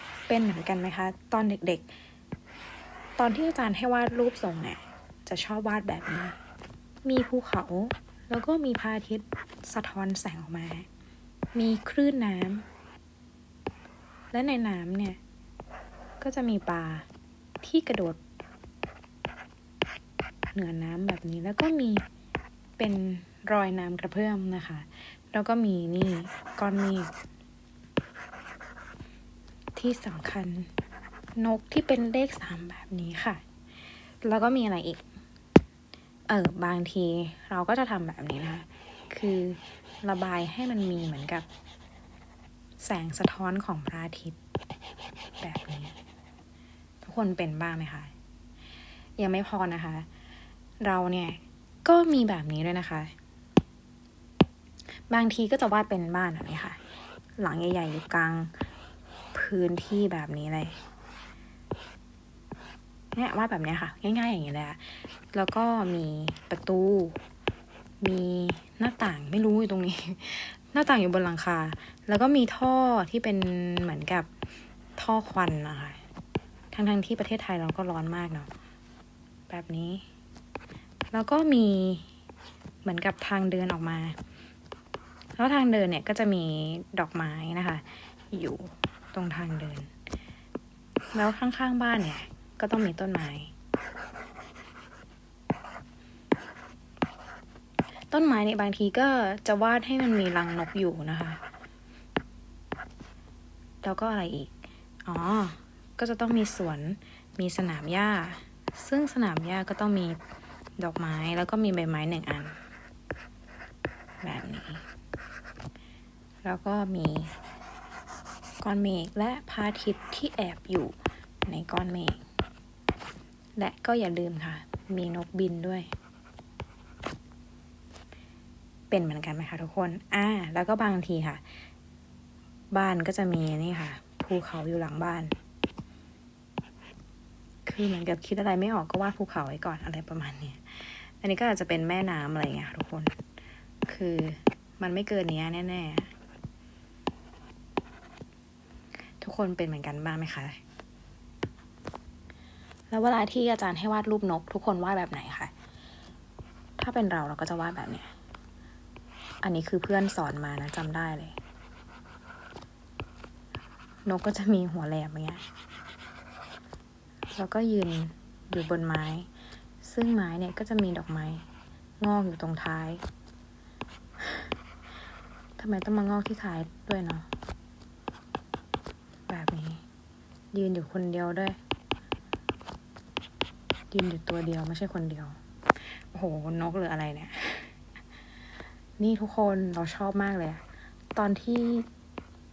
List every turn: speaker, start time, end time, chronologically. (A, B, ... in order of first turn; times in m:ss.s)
0:00.3-0:01.9 A
0:03.2-0:06.4 A
0:07.0-0:10.9 A
0:11.5-0:12.6 A
0:14.3-0:15.2 A
0:16.2-0:17.0 A
0:17.6-0:18.2 A
0:20.5-0:22.0 A
0:22.8-0:27.1 A
0:29.8-0:30.7 A
0:31.4-0:33.4 A
0:34.2-0:35.0 A
0:36.3-0:41.5 A
0:42.8-0:44.4 A
0:45.4-0:46.0 A
0:47.0-0:48.1 A
0:49.2-0:50.1 A
0:50.8-0:53.1 A
0:55.1-0:56.8 A
0:57.4-0:58.5 A
0:59.3-1:00.8 A
1:03.1-1:07.2 A
1:08.0-1:14.3 A
1:15.0-1:16.0 A
1:16.7-1:18.5 A
1:19.5-1:20.0 A
1:21.1-1:22.1 A
1:22.8-1:24.2 A
1:25.4-1:29.9 A
1:31.1-1:33.5 A
1:38.1-1:41.4 A
1:43.8-1:44.5 A
1:45.0-1:50.2 A
1:50.8-1:52.6 A
1:54.2-1:54.8 A
1:56.4-1:57.3 A
1:58.6-2:02.2 A
2:03.6-2:05.9 A
2:08.9-2:11.4 A
2:12.7-2:15.3 A
2:17.7-2:23.1 A
2:23.9-2:26.1 A
2:29.2-2:30.6 A
2:32.9-2:35.5 A
2:36.8-2:38.1 A
2:39.4-2:41.4 A
2:44.1-2:45.4 A
2:47.3-2:49.3 A
2:49.8-2:51.5 A
2:52.0-2:53.0 A
2:55.6-2:57.3 A
2:59.3-2:59.8 A
3:00.5-3:01.6 A
3:03.9-3:07.7 A
3:09.0-3:10.6 A
3:11.1-3:11.9 A